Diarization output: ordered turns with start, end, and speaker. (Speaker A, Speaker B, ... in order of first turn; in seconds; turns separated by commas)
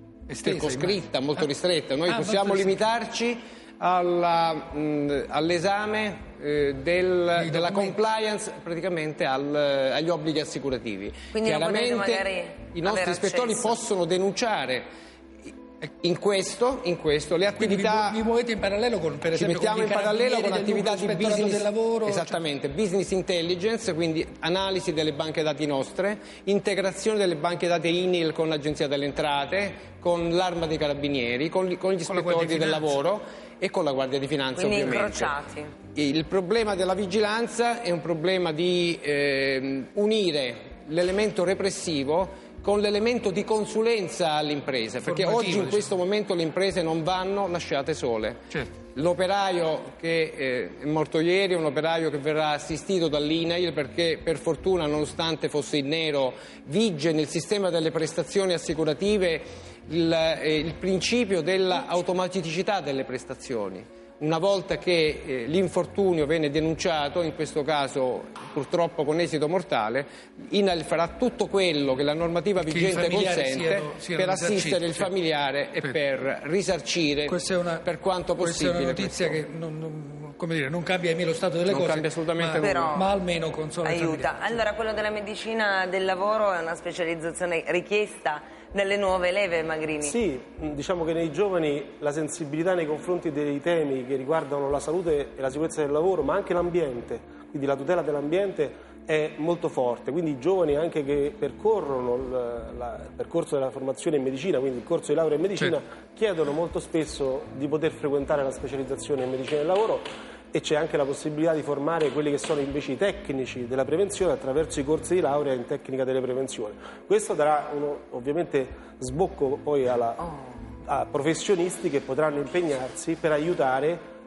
Speaker A: 0.3-1.5, Speaker B: 0.4-14.8, Speaker A: 2.0-2.8, Speaker A: 7.3-8.0, Speaker C: 11.3-13.8, Speaker B: 16.0-18.2, Speaker A: 17.5-22.4, Speaker B: 19.3-35.3, Speaker A: 32.0-33.0, Speaker C: 34.5-35.7, Speaker B: 35.9-79.4, Speaker A: 45.0-45.9, Speaker A: 72.6-75.1, Speaker A: 77.3-84.6, Speaker B: 81.7-82.9, Speaker C: 82.6-83.1, Speaker C: 83.8-90.1, Speaker D: 90.0-120.3, Speaker D: 120.8-124.0